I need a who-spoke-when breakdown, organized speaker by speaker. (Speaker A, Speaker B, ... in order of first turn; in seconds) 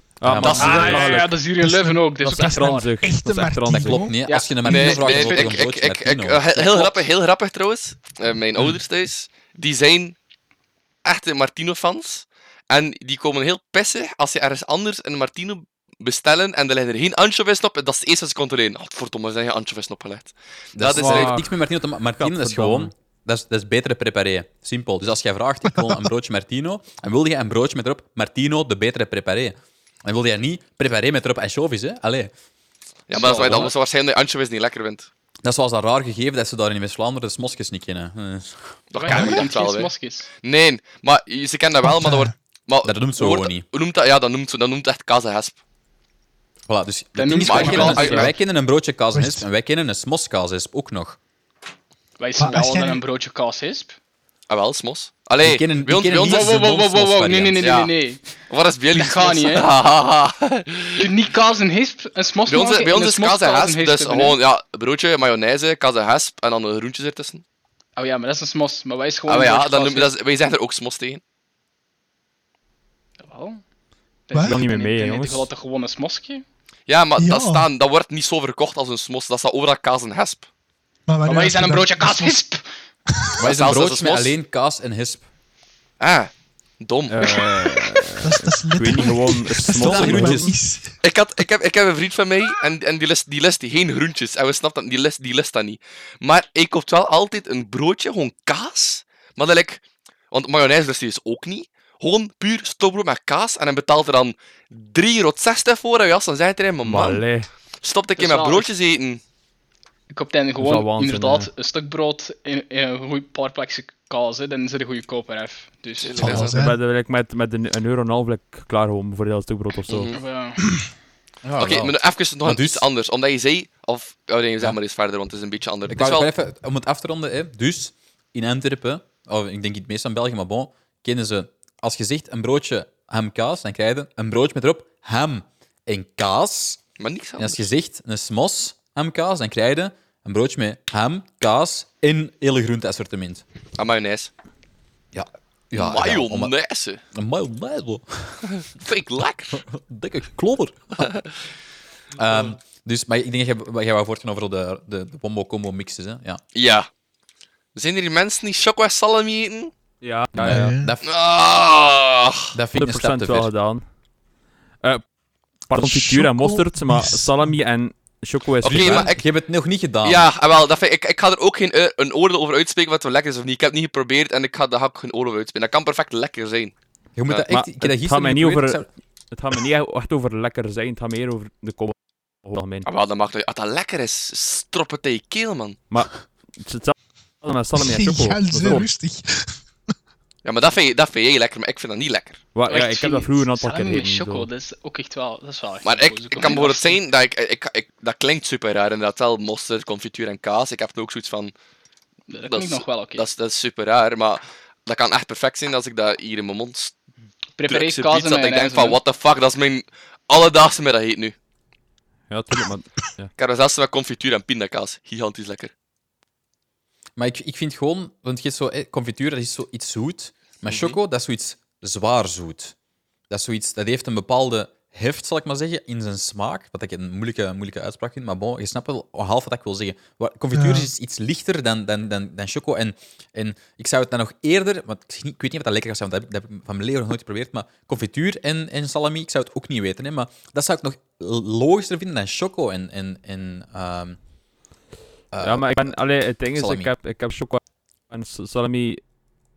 Speaker A: 0.2-1.4, 2.3-4.1, 20.9-21.6, 22.2-22.9, 47.7-48.2, 74.4-75.5, 87.1-90.5, 106.8-107.5, 110.6-111.5, 116.2-120.1, 160.0-160.8, 162.7-163.8, 165.7-169.1, 177.5-182.9, 185.9-188.9, 192.5-194.5, 212.3-213.3, 245.4-249.0
Speaker B: 0.2-1.0, 3.8-7.0, 20.8-32.3, 33.2-33.7, 35.4-39.4, 42.8-43.6, 46.7-51.2, 55.4-57.7, 83.4-85.2, 89.7-90.5, 121.4-122.9, 125.9-136.8, 137.4-143.4, 145.1-146.5, 147.1-148.5, 149.5-151.1, 152.2-156.4, 160.3-161.1, 162.5-163.5, 168.7-170.3, 177.2-178.9, 217.2-222.8, 223.3-244.2, 245.3-246.9
Speaker C: 0.4-1.2, 4.6-10.2, 11.0-21.4, 33.1-35.1, 38.9-45.6, 47.4-48.3, 54.5-56.6, 57.6-57.9, 58.5-61.1, 62.5-67.4, 69.3-71.2, 76.9-80.5, 83.4-84.3, 86.0-88.0, 91.0-107.2, 107.8-109.2, 116.0-116.6, 119.9-120.2, 121.6-126.3, 137.0-137.7, 143.8-144.3, 145.7-147.0, 148.4-149.6, 156.5-156.9, 157.8-159.7, 161.0-162.6, 168.6-169.3, 170.0-176.7, 182.8-185.8, 190.4-192.4, 195.8-201.5, 202.5-206.9, 207.7-211.3, 213.4-215.7, 220.7-221.0
Speaker D: 0.4-2.9, 4.3-5.5, 33.1-33.7, 39.0-40.3, 47.2-48.3, 52.2-54.0, 56.1-58.3, 58.9-59.7, 61.0-64.4, 68.0-70.1, 73.2-73.6, 74.3-76.5, 81.3-82.7, 108.2-108.7, 110.1-116.3, 120.1-120.7, 192.7-197.0, 202.3-203.3, 207.6-209.0
Speaker E: 1.6-4.2, 41.8-42.3, 49.1-49.5, 52.4-53.0, 74.3-74.6, 77.2-77.7, 81.1-82.4, 88.2-91.0, 116.2-116.8, 160.4-160.9, 165.8-167.5, 187.8-189.6, 230.5-230.9